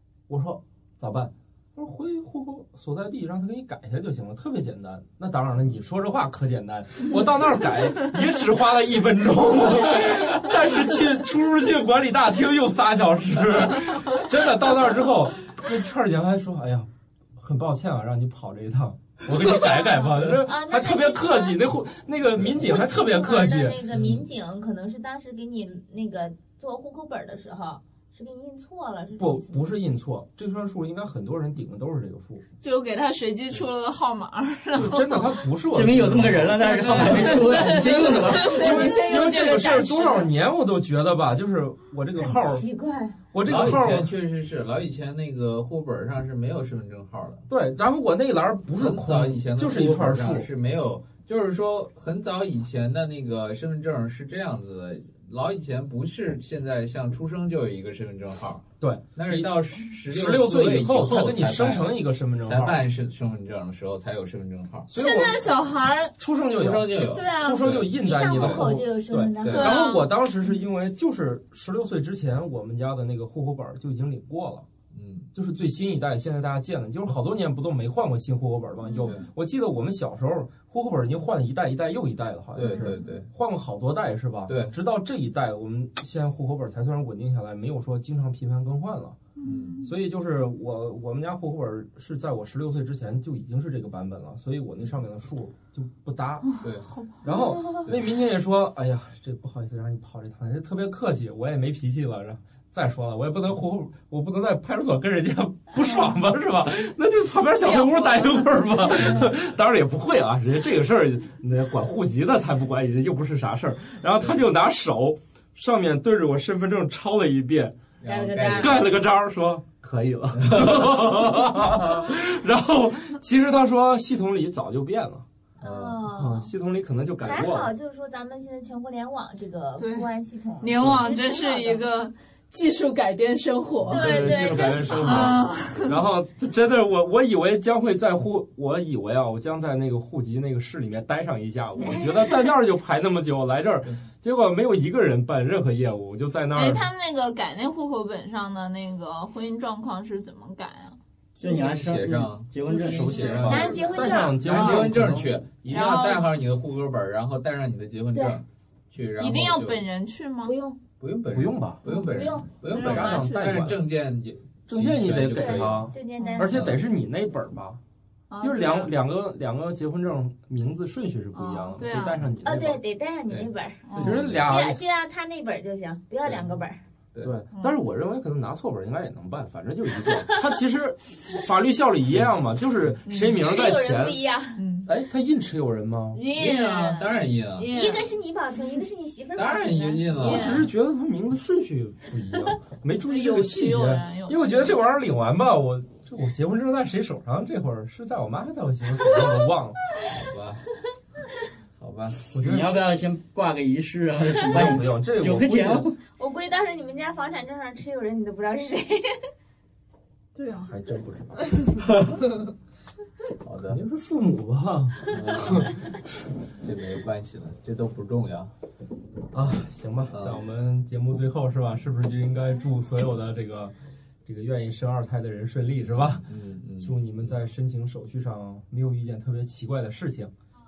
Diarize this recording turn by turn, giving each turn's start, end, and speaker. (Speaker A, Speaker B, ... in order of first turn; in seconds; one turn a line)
Speaker A: 0.3-24.1
Speaker B: 19.4-21.6
Speaker B: 22.5-29.6
Speaker A: 29.2-32.4
Speaker C: 32.6-35.4
Speaker A: 34.7-42.6
Speaker D: 35.7-38.9
Speaker C: 36.6-40.3
Speaker B: 42.1-43.2
Speaker A: 43.3-44.1
Speaker E: 43.5-47.5
Speaker A: 47.5-50.5
Speaker E: 48.8-64.9
Speaker A: 58.8-59.5
Speaker A: 60.1-62.8
Speaker A: 64.9-65.5
Speaker C: 65.0-66.1
Speaker A: 66.2-74.7
Speaker E: 66.5-68.7
Speaker C: 67.2-67.7
Speaker B: 68.0-69.8
Speaker E: 69.4-69.8
Speaker C: 69.5-70.1
Speaker E: 74.9-75.3
Speaker A: 75.3-89.2
Speaker E: 82.5-83.3
Speaker E: 84.5-84.7
Speaker C: 89.4-89.9
Speaker E: 89.4-89.9
Speaker A: 89.8-96.5
Speaker C: 96.5-97.2
Speaker E: 96.6-96.9
Speaker A: 97.2-117.8
Speaker C: 105.8-106.1
Speaker C: 107.6-108.9
Speaker E: 118.0-119.0
Speaker B: 118.0-118.9
Speaker A: 118.6-125.2
Speaker E: 120.3-120.9
Speaker E: 125.6-126.0
Speaker B: 125.6-126.5
Speaker A: 126.1-127.7
Speaker B: 127.2-131.8
Speaker C: 129.8-130.1
Speaker C: 130.6-135.9
Speaker A: 133.9-146.9
Speaker B: 133.9-135.4
Speaker C: 146.5-151.0
Speaker E: 151.4-159.8
Speaker D: 151.4-153.7
Speaker A: 152.7-155.4
Speaker B: 153.5-154.8
Speaker C: 154.6-154.8
Speaker C: 155.7-156.3
Speaker C: 159.2-160.5
Speaker B: 160.4-160.8
Speaker E: 161.0-165.9
Speaker A: 161.3-162.0
Speaker B: 161.9-162.5
Speaker C: 162.7-163.8
Speaker A: 162.7-163.8
Speaker A: 164.7-167.8
Speaker B: 165.4-166.7
Speaker C: 166.2-166.5
Speaker E: 166.5-166.8
Speaker C: 168.3-168.9
Speaker A: 168.4-172.8
Speaker B: 171.3-171.8
Speaker C: 171.8-172.2
Speaker B: 172.4-176.8
Speaker E: 173.3-174.5
Speaker C: 173.9-174.2
Speaker A: 174.0-174.8
Speaker E: 176.2-176.6
Speaker A: 177.2-184.2
Speaker B: 180.1-180.4
Speaker B: 183.3-184.6
Speaker C: 184.6-184.9
Speaker A: 184.9-186.2
Speaker C: 186.1-188.1
Speaker E: 186.3-187.7
Speaker B: 187.6-190.5
Speaker E: 189.4-190.6
Speaker C: 190.2-190.7
Speaker A: 190.2-199.8
Speaker C: 193.1-194.8
Speaker E: 200.1-200.6
Speaker E: 201.8-202.3
Speaker A: 202.3-202.9
Speaker D: 202.4-206.0
Speaker A: 204.3-205.9
Speaker B: 206.2-209.2
Speaker C: 210.3-210.8
Speaker A: 210.6-212.1
Speaker E: 213.4-213.8
Speaker A: 213.7-215.8
Speaker E: 215.1-215.7
Speaker E: 216.6-218.5
Speaker A: 219.3-223.7
Speaker E: 220.1-220.5
Speaker A: 224.3-230.3
Speaker E: 226.3-227.4